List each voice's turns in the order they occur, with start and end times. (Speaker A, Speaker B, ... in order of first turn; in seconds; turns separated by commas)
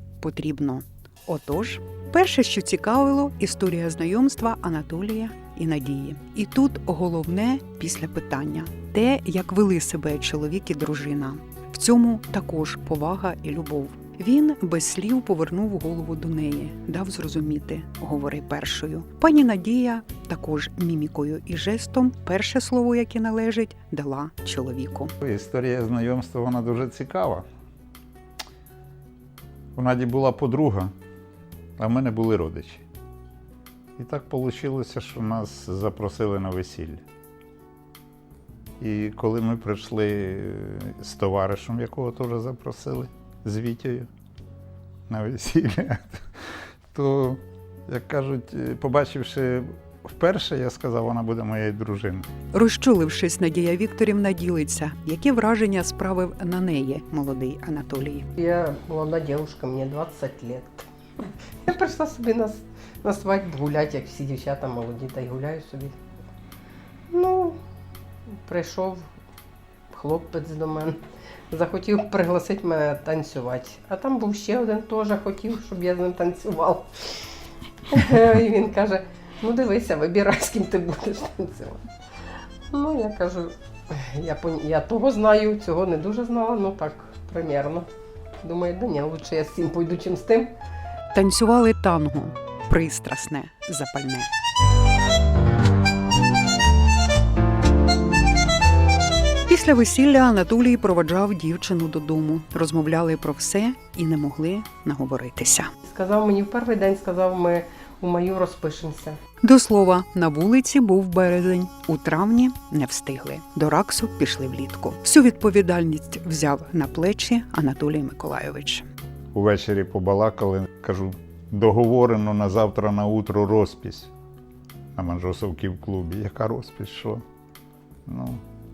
Speaker A: 0.2-25.1, Speaker B: 25.2-27.4, Speaker B: 29.7-30.9, Speaker B: 31.8-32.8, Speaker B: 34.0-37.0, Speaker B: 38.8-44.1, Speaker B: 45.1-46.2, Speaker B: 46.9-52.3, Speaker A: 52.5-58.3, Speaker C: 58.4-60.9, Speaker C: 61.6-65.9, Speaker C: 67.1-67.6, Speaker C: 68.4-69.0, Speaker C: 69.9-71.0, Speaker C: 71.5-77.2, Speaker C: 77.9-81.9, Speaker C: 82.7-87.9, Speaker C: 88.4-90.5, Speaker A: 91.1-94.3, Speaker A: 99.5-105.7, Speaker C: 105.8-109.2, Speaker A: 109.4-118.8, Speaker B: 119.3-124.1, Speaker B: 125.0-127.2, Speaker B: 128.1-128.4